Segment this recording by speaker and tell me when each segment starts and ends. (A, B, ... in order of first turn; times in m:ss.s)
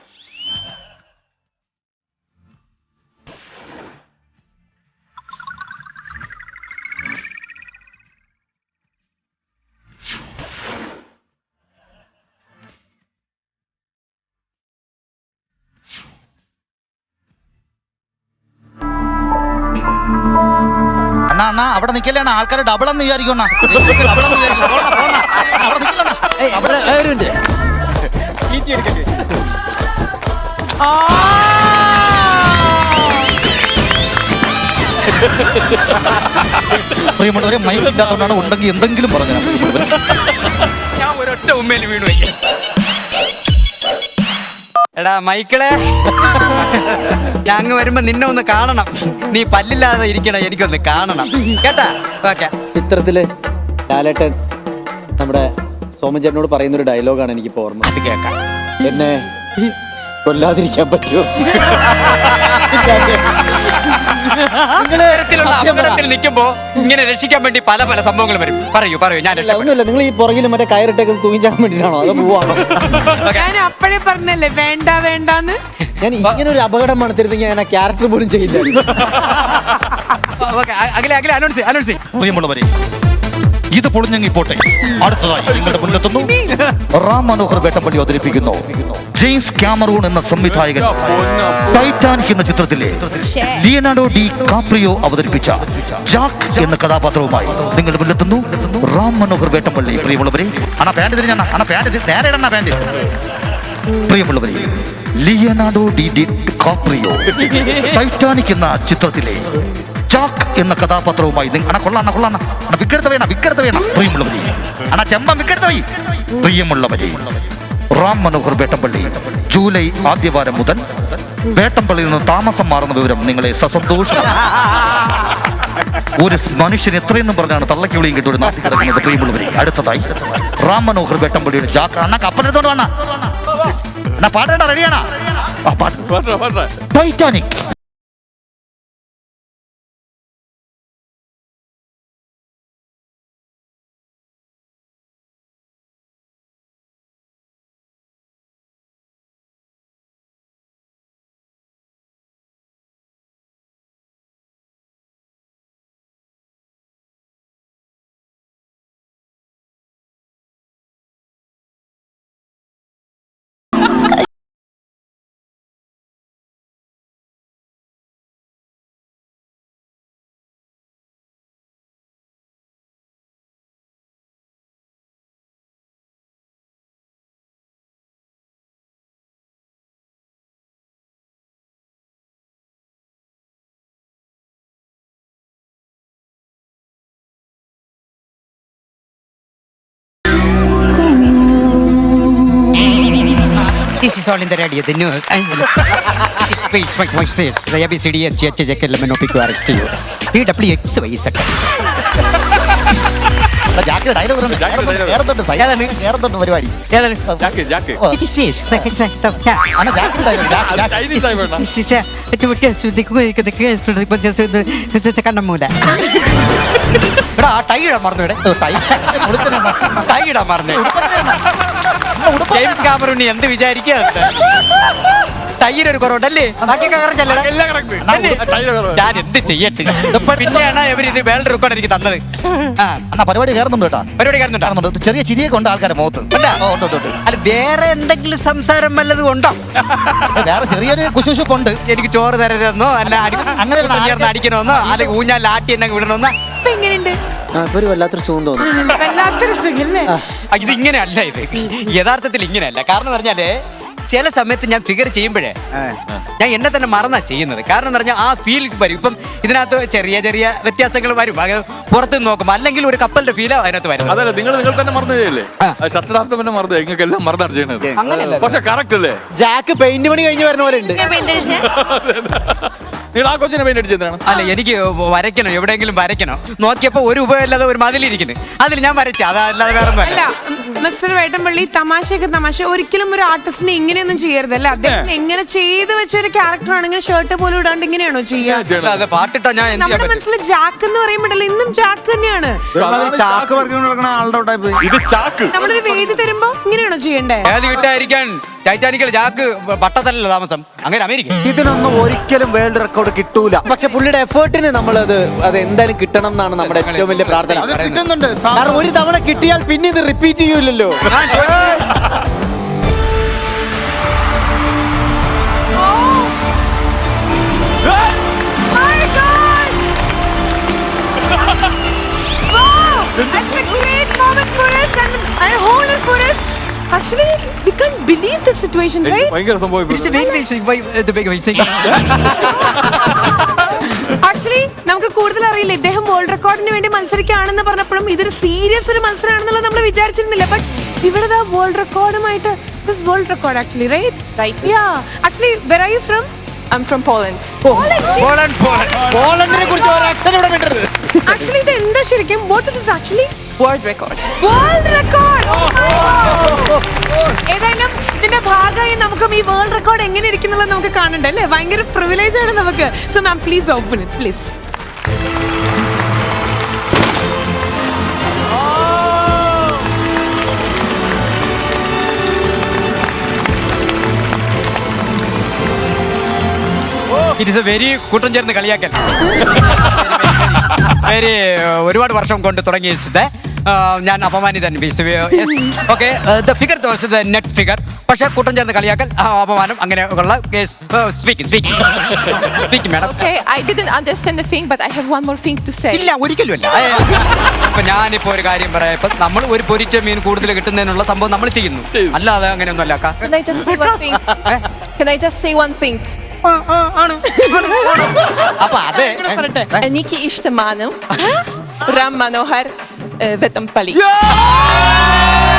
0:21.3-0:26.9 A
0:26.4-0:27.3 B
0:28.5-0:29.0 C
0:37.0-0:39.9 A
0:41.0-0:42.3 C
0:45.0-0:52.5 C
0:52.7-0:53.3 B
0:53.9-0:54.4 B
0:55.2-0:57.9 B
0:57.8-0:58.4 C
0:58.8-0:59.7 B
1:00.2-1:04.0 B
1:04.6-1:06.0 B
1:04.9-1:09.7 C
1:09.3-1:12.9 B
1:13.0-1:13.5 C
1:13.3-1:15.6 D
1:16.0-1:19.1 B
1:20.3-1:22.1 C
1:22.1-1:22.7 A
1:23.7-1:26.3 A
1:26.1-1:26.6 D
1:26.9-1:43.0 A
1:30.5-1:31.9 E
1:33.2-1:33.6 F
1:44.0-1:49.5 A
1:50.1-2:04.4 A
2:06.2-2:13.3 A
2:14.2-2:16.1 A
2:16.1-2:16.7 E
2:16.9-2:17.7 A
3:13.5-3:14.1 A
3:14.0-3:21.7 C
3:23.7-3:27.5 A
3:24.5-3:25.2 E
3:25.6-3:26.0 C
3:26.9-3:27.2 C
3:27.4-3:28.0 E
3:28.0-3:28.9 A
3:28.1-3:29.7 C
3:29.7-3:31.1 A
3:30.6-3:31.6 E
3:31.1-3:36.1 C
3:37.4-3:38.4 C
3:38.4-3:40.0 A
3:40.0-3:41.0 C
3:40.7-3:41.4 A
3:42.1-3:43.0 A
3:42.5-3:44.8 C
3:45.6-3:47.5 C
3:47.3-3:49.0 E
3:48.0-3:48.4 A
3:48.1-3:53.0 C
3:50.1-3:50.8 A
3:53.1-3:54.1 A
3:54.2-3:54.7 C
3:54.6-3:57.2 A
3:56.3-3:56.6 C
3:57.2-4:00.1 C
4:00.3-4:01.8 A
4:01.9-4:06.3 C
4:03.3-4:05.1 A
4:06.6-4:07.2 D
4:07.6-4:08.8 B
4:08.8-4:10.1 D
4:10.5-4:13.5 C
4:14.1-4:24.2 C
4:24.0-4:29.2 E
4:27.9-4:28.6 C
4:29.4-4:31.0 B
4:30.8-4:31.6 D
4:31.0-4:31.6 F
4:31.6-4:34.2 E
4:34.2-4:40.3 C
4:40.0-4:48.7 D
4:44.8-4:45.1 E
4:48.4-4:49.1 E
4:48.8-4:50.2 C
4:49.7-4:52.6 D
4:52.8-4:53.7 E
4:52.8-4:54.8 G
4:54.8-4:56.1 E
4:55.5-4:57.6 D
4:57.4-5:01.4 C
5:01.4-5:03.6 G
5:03.6-5:07.7 B
5:06.6-5:08.1 C
5:07.6-5:08.9 G
5:08.5-5:11.0 B
5:11.1-5:11.9 C
5:15.7-5:16.3 D
5:18.7-5:19.8 D
5:22.5-5:29.4 D
5:29.0-5:30.2 E
5:29.9-5:32.9 C
5:33.2-5:46.3 D
5:44.4-5:44.7 F
5:46.7-5:47.6 F
5:47.6-5:51.4 B
5:47.6-5:50.2 D
5:48.4-5:48.8 C
5:51.3-5:53.5 D
5:53.6-5:54.3 F
5:54.4-5:56.7 D
5:57.5-6:04.6 D
6:17.4-6:33.2 C
6:33.0-6:36.1 F
6:35.9-6:43.8 C
6:43.2-6:46.1 F
6:46.4-6:49.8 C
6:49.0-6:49.6 D
6:49.3-6:51.0 F
6:51.8-6:54.0 F
6:54.0-6:55.3 D